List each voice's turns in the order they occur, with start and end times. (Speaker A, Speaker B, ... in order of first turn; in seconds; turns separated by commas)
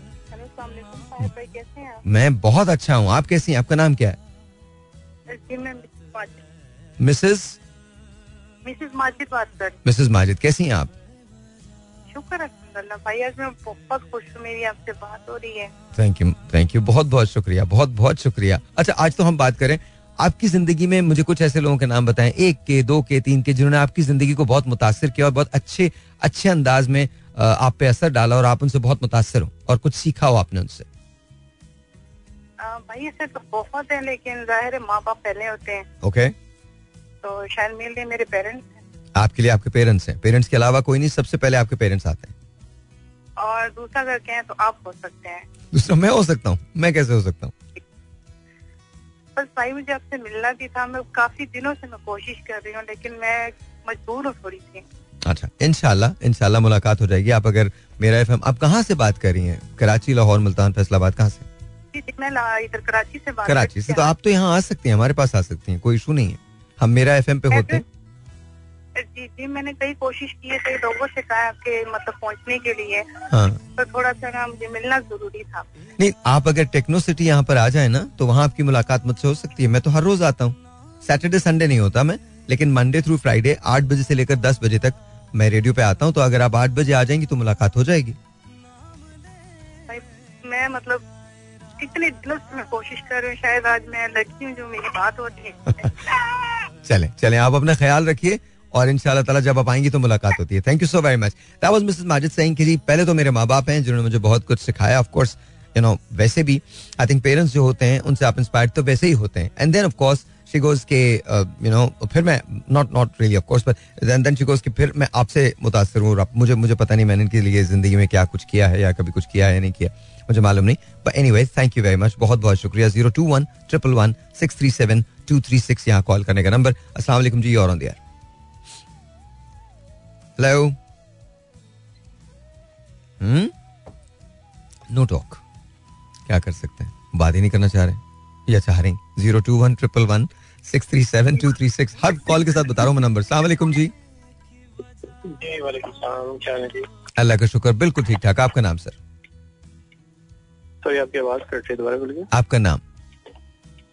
Speaker A: 0.3-2.0, Speaker B: 2.0-4.2, Speaker A: 5.3-6.4, Speaker B: 7.0-7.6, Speaker A: 8.6-9.8, Speaker B: 9.8-10.9, Speaker A: 12.1-15.7, Speaker B: 16.0-30.9, Speaker A: 32.6-35.9, Speaker B: 36.0-36.3, Speaker A: 37.2-38.8, Speaker B: 39.2-42.3, Speaker A: 43.4-45.5, Speaker B: 45.7-47.5, Speaker A: 49.4-54.8, Speaker B: 55.2-61.5, Speaker A: 61.9-64.1, Speaker B: 63.5-67.8, Speaker A: 67.5-67.8, Speaker A: 69.0-73.1, Speaker B: 73.3-73.6, Speaker A: 73.8-75.7, Speaker B: 76.0-88.2, Speaker A: 89.9-91.0, Speaker A: 91.8-96.1, Speaker B: 96.8-128.0, Speaker B: 130.4-130.8, Speaker B: 133.2-133.5, Speaker B: 134.9-135.4, Speaker B: 136.3-143.9, Speaker C: 145.4-146.7, Speaker B: 147.2-149.0, Speaker C: 150.8-152.3, Speaker B: 152.3-152.8